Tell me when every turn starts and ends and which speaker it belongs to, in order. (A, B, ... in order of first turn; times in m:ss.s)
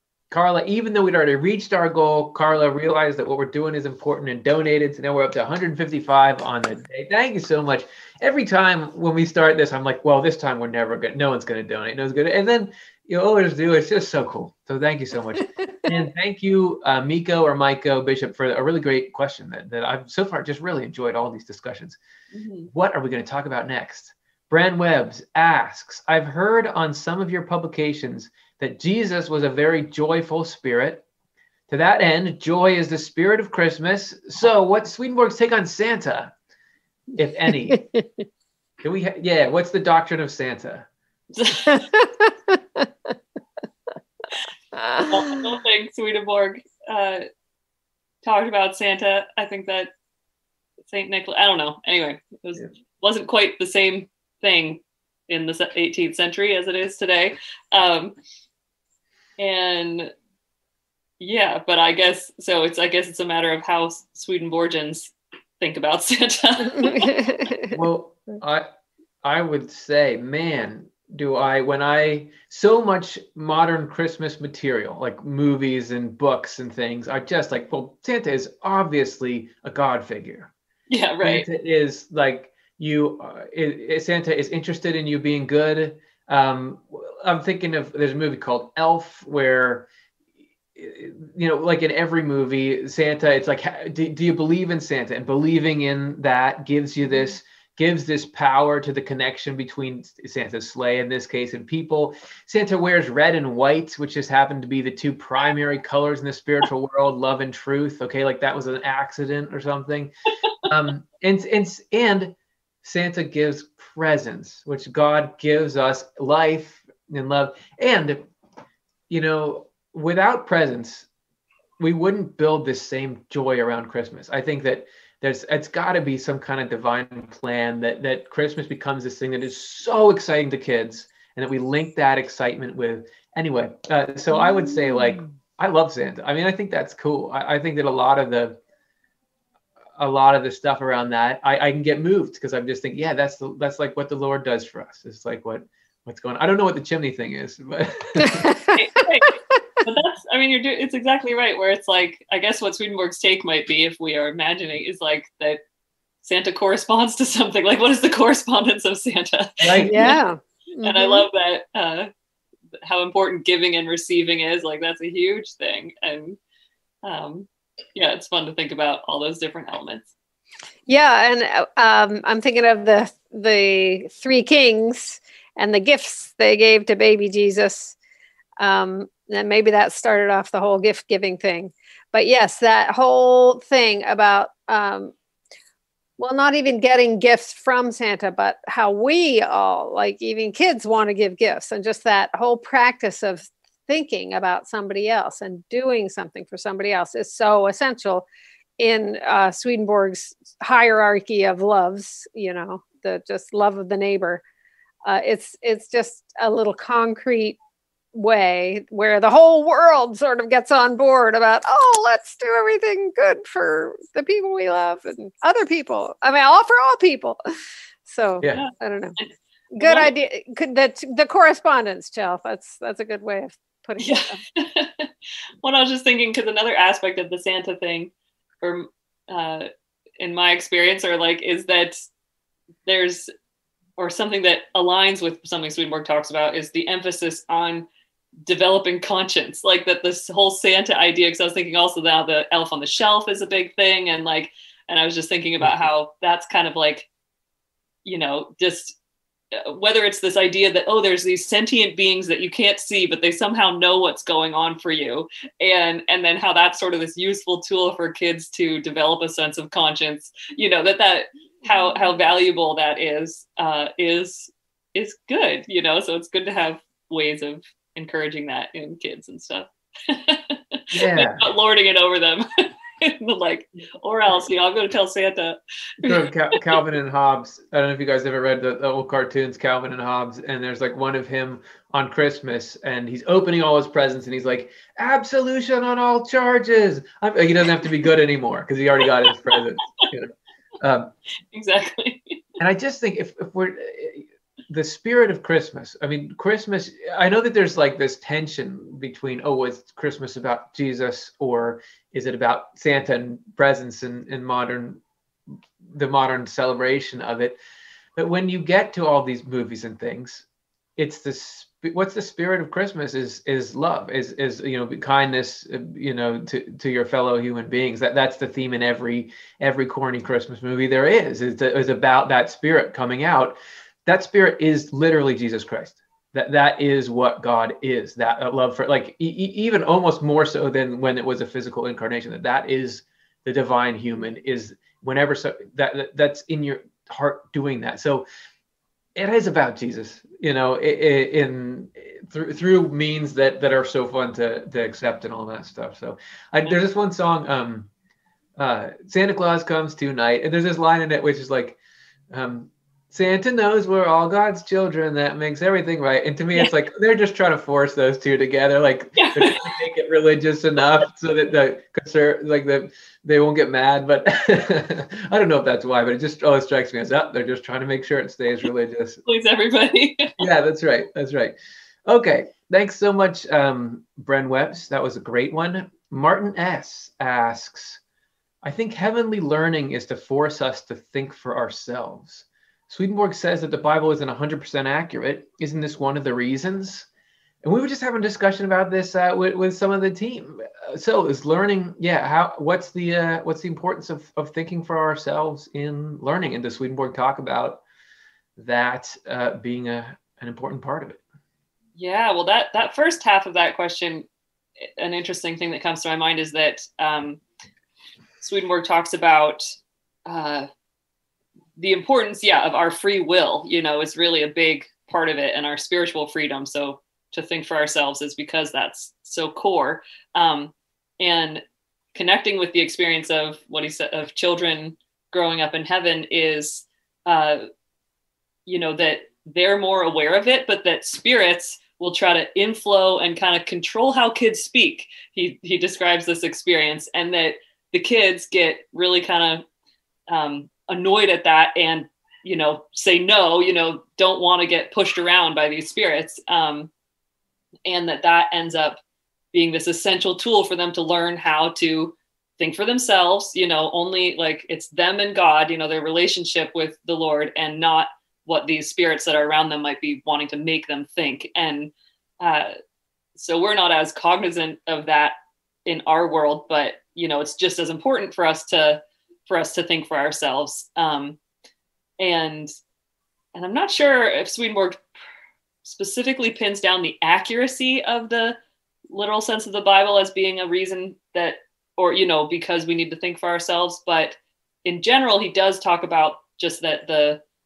0:00.3-0:22.0 A
0:22.3-0:22.7 B
0:22.7-0:31.0 A
0:31.7-0:36.3 A
0:37.1-0:37.8 A
0:37.7-0:38.1 C
0:38.8-0:40.9 A
0:41.3-0:41.8 B
0:41.6-0:42.8 C
0:44.7-0:45.4 C
0:45.1-0:47.2 B
0:48.2-0:49.9 B
0:50.8-0:58.2 B
0:59.4-1:00.1 B
1:01.2-1:07.3 B
1:06.8-1:07.7 C
1:07.7-1:08.7 A
1:09.2-1:20.5 A
1:20.9-1:21.5 B
1:21.2-1:29.9 A
1:30.7-1:50.1 A
1:50.6-1:58.2 A
1:59.1-2:01.1 A
2:01.8-2:18.6 A
2:20.0-2:28.5 A
2:28.2-2:28.8 C
2:28.7-2:35.6 B
2:36.2-2:40.2 B
2:39.6-2:40.2 A
2:39.8-2:41.2 C
2:40.8-2:42.1 B
2:42.8-2:46.4 B
2:47.0-2:50.1 B
2:50.9-2:57.9 C
2:58.6-3:05.1 C
3:06.2-3:18.2 C
3:18.8-3:24.4 C
3:25.0-3:27.6 C
3:28.1-3:37.4 C
3:38.0-3:39.2 C
3:38.4-3:38.7 A
3:38.5-3:39.3 B
3:39.7-3:44.4 C
3:39.8-3:40.1 B
3:44.0-3:45.1 B
3:45.6-3:49.7 B
3:50.2-3:52.1 B
3:52.8-3:53.3 B
3:54.0-3:57.9 B
3:58.4-4:07.1 B
4:08.0-4:09.0 B
4:09.5-4:36.8 B
4:30.9-4:31.4 A
4:36.0-4:51.1 A
4:49.2-4:50.1 B
4:51.5-4:52.4 B
4:52.6-5:05.0 A
5:05.9-5:07.6 A
5:08.2-5:10.4 A
5:11.0-5:38.2 A
5:39.2-5:47.9 A
5:48.6-5:51.8 A
5:52.3-6:09.2 A
5:59.2-5:59.7 B
6:09.3-6:10.4 B
6:10.4-6:11.5 A
6:12.1-6:18.0 A
6:18.6-6:27.1 A
6:27.6-6:37.8 A
6:38.6-6:41.2 A
6:42.0-6:44.2 B
6:45.0-6:47.4 B
6:48.4-6:49.6 B
6:50.3-6:50.7 B
6:51.8-7:01.6 B
7:02.1-7:07.6 B
7:08.6-7:19.6 B
7:20.3-7:26.9 B
7:27.8-7:29.0 B
7:29.5-7:42.7 B
7:43.4-7:51.4 B
7:52.2-7:52.7 B
7:53.5-7:55.0 B
7:55.8-7:58.6 B
7:59.1-8:07.4 B